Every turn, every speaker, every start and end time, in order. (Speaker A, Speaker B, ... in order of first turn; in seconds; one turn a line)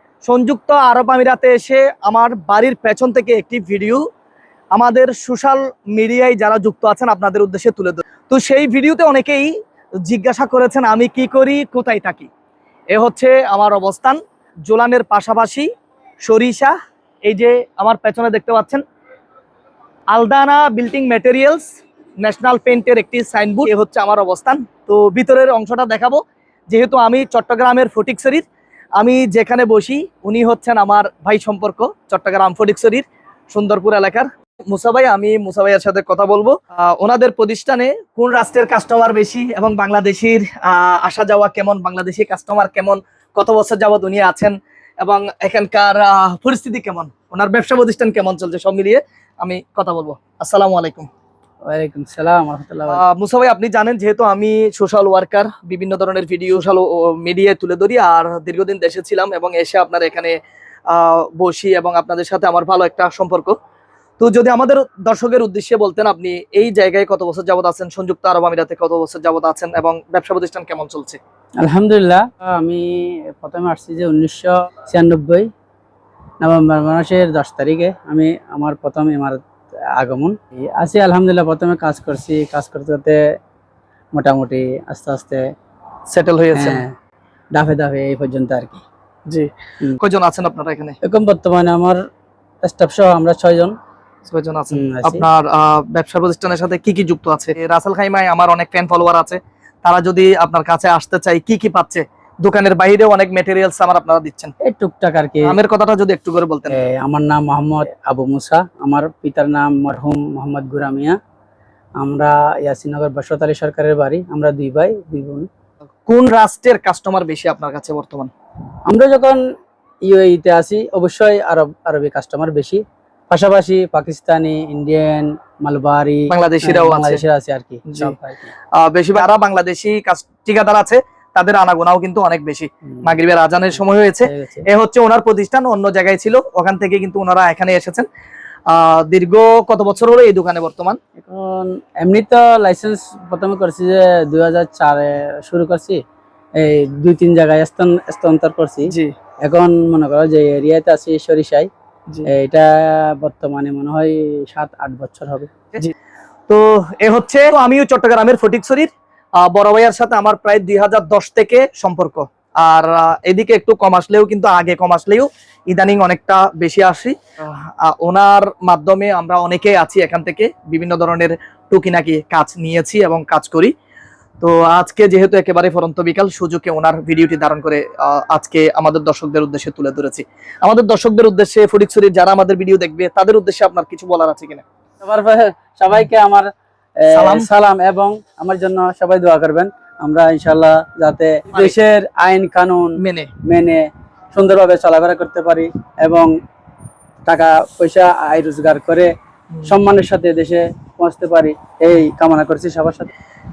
Speaker A: 0.3-4.0
Speaker A: 4.8-9.6
Speaker A: 10.1-12.3
Speaker A: 12.9-15.7
Speaker A: 16.2-16.8
Speaker A: 17.3-18.8
Speaker A: 20.1-21.7
Speaker A: 22.2-28.4
Speaker A: 29.0-51.1
Speaker B: 51.6-53.0
Speaker A: 52.9-60.4
Speaker A: 60.9-63.6
Speaker A: 64.2-71.2
Speaker B: 71.6-75.5
Speaker B: 76.4-79.4
Speaker B: 80.0-83.2
Speaker B: 84.2-85.5
Speaker A: 86.1-86.8
Speaker B: 86.5-87.0
Speaker B: 87.5-88.8
Speaker A: 89.3-91.0
Speaker B: 91.0-92.0
Speaker B: 92.6-93.8
Speaker A: 94.2-104.5
Speaker B: 94.7-95.3
Speaker B: 104.6-105.6
Speaker A: 105.4-106.8
Speaker B: 106.7-111.2
Speaker B: 112.0-115.5
Speaker A: 116.1-118.3
Speaker B: 118.9-119.4
Speaker B: 120.1-128.5
Speaker A: 126.3-127.2
Speaker A: 127.9-128.2
Speaker A: 128.7-138.1
Speaker B: 134.2-134.7
Speaker A: 138.7-141.0
Speaker B: 141.2-146.0
Speaker B: 146.6-148.9
Speaker B: 149.4-151.7
Speaker B: 152.3-155.5
Speaker A: 156.5-173.7
Speaker A: 174.4-184.6
Speaker B: 185.0-196.3
Speaker A: 187.1-187.5
Speaker A: 193.0-193.3
Speaker B: 197.2-199.1
Speaker B: 199.7-203.1